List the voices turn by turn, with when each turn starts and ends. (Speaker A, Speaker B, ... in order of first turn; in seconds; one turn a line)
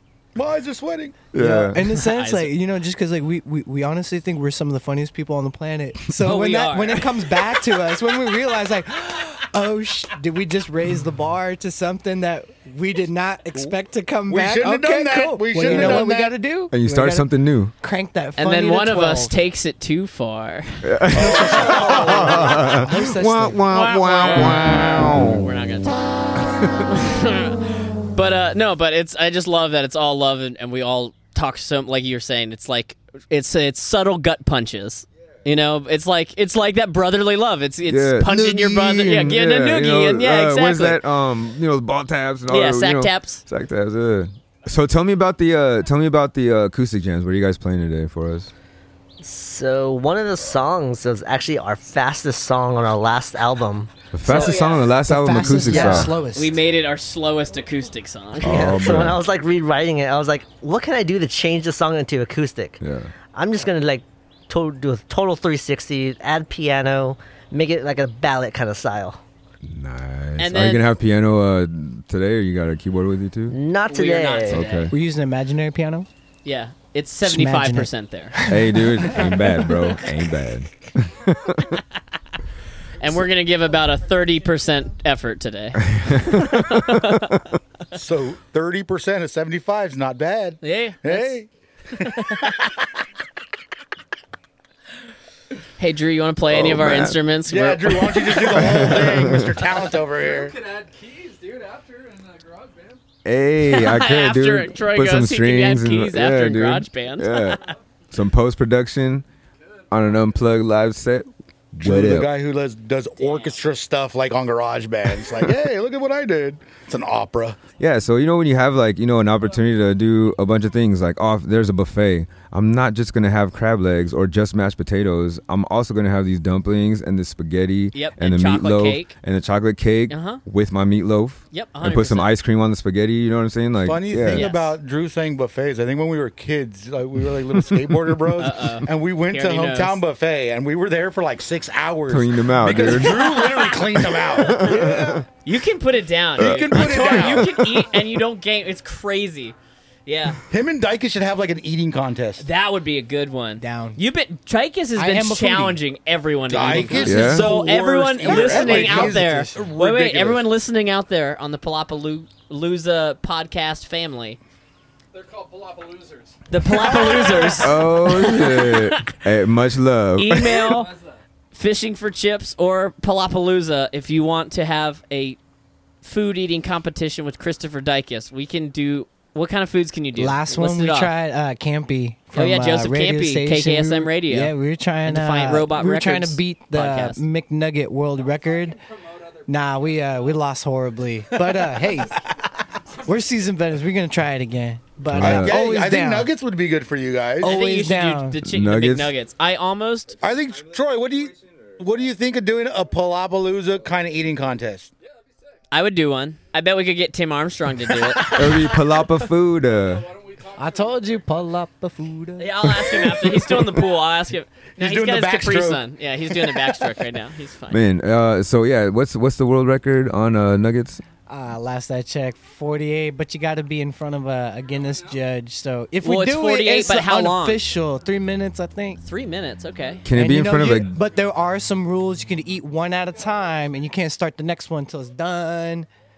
Speaker A: 0.3-1.2
Speaker B: 1.3-2.0
Speaker C: 1.3-19.3
Speaker D: 1.9-2.5
Speaker D: 6.2-7.6
Speaker A: 14.3-16.4
Speaker B: 15.7-15.9
Speaker B: 16.7-17.7
Speaker D: 18.4-20.8
Speaker B: 20.8-25.5
Speaker A: 21.1-22.7
Speaker C: 21.4-23.7
Speaker D: 21.6-22.2
Speaker D: 23.7-41.0
Speaker B: 37.9-48.5
Speaker D: 42.5-43.4
Speaker E: 49.2-54.1
Speaker B: 54.1-56.1
Speaker D: 54.2-54.8
Speaker C: 54.4-56.6
Speaker D: 55.7-59.0
Speaker E: 58.4-62.8
Speaker B: 58.4-59.2
Speaker B: 62.8-63.1
Speaker E: 63.3-69.2
Speaker B: 69.6-73.6
Speaker D: 70.4-70.9
Speaker E: 73.5-74.6
Speaker D: 73.8-74.9
Speaker B: 74.5-74.9
Speaker C: 74.9-76.1
Speaker D: 76.4-78.4
Speaker C: 77.2-79.3
Speaker B: 78.5-81.8
Speaker D: 83.0-87.4
Speaker F: 83.8-84.4
Speaker B: 85.8-87.4
Speaker A: 87.9-92.5
Speaker D: 90.6-91.4
Speaker D: 92.0-92.5
Speaker D: 95.8-98.8
Speaker B: 96.5-97.2
Speaker A: 97.5-100.5
Speaker B: 98.3-99.6
Speaker F: 100.0-103.0
Speaker B: 103.2-109.2
Speaker D: 103.6-107.7
Speaker F: 107.4-107.8
Speaker F: 109.7-110.4
Speaker B: 109.9-112.3
Speaker A: 111.8-117.6
Speaker D: 113.2-113.6
Speaker B: 117.8-134.5
Speaker D: 127.9-129.1
Speaker D: 130.1-130.4
Speaker D: 131.5-132.3
Speaker A: 133.8-145.2
Speaker D: 134.3-134.8
Speaker B: 137.2-138.2
Speaker D: 138.4-140.0
Speaker B: 142.1-143.4
Speaker D: 142.9-144.7
Speaker B: 144.3-145.2
Speaker D: 145.4-149.5
Speaker A: 146.4-147.8
Speaker B: 146.4-147.9
Speaker D: 150.1-150.4
Speaker A: 150.5-152.4
Speaker D: 152.4-164.4
Speaker C: 153.6-154.0
Speaker C: 154.9-155.8
Speaker A: 156.5-160.4
Speaker C: 156.7-157.0
Speaker B: 157.0-157.5
Speaker C: 158.2-159.6
Speaker F: 165.1-167.8
Speaker D: 166.5-169.1
Speaker B: 167.6-170.6
Speaker D: 170.2-170.9
Speaker F: 170.6-171.2
Speaker D: 171.5-175.4
Speaker D: 176.0-181.1
Speaker C: 180.2-188.8
Speaker D: 182.3-184.5
Speaker D: 185.0-187.2
Speaker F: 188.2-190.4
Speaker C: 189.5-192.2
Speaker F: 191.6-192.3
Speaker F: 192.8-193.2
Speaker C: 193.0-196.3
Speaker B: 195.1-195.6
Speaker A: 195.2-197.5
Speaker C: 197.4-198.3
Speaker D: 197.4-200.2
Speaker B: 198.4-199.1
Speaker A: 200.2-204.9
Speaker F: 205.0-205.5
Speaker D: 205.7-208.6
Speaker B: 208.3-210.1
Speaker F: 209.5-211.6
Speaker C: 210.6-212.8
Speaker D: 212.4-217.8
Speaker A: 214.8-216.9
Speaker B: 217.7-221.0
Speaker C: 221.3-229.0
Speaker F: 224.7-225.2
Speaker D: 226.0-227.6
Speaker D: 229.0-230.0
Speaker B: 230.0-230.9
Speaker C: 230.1-235.9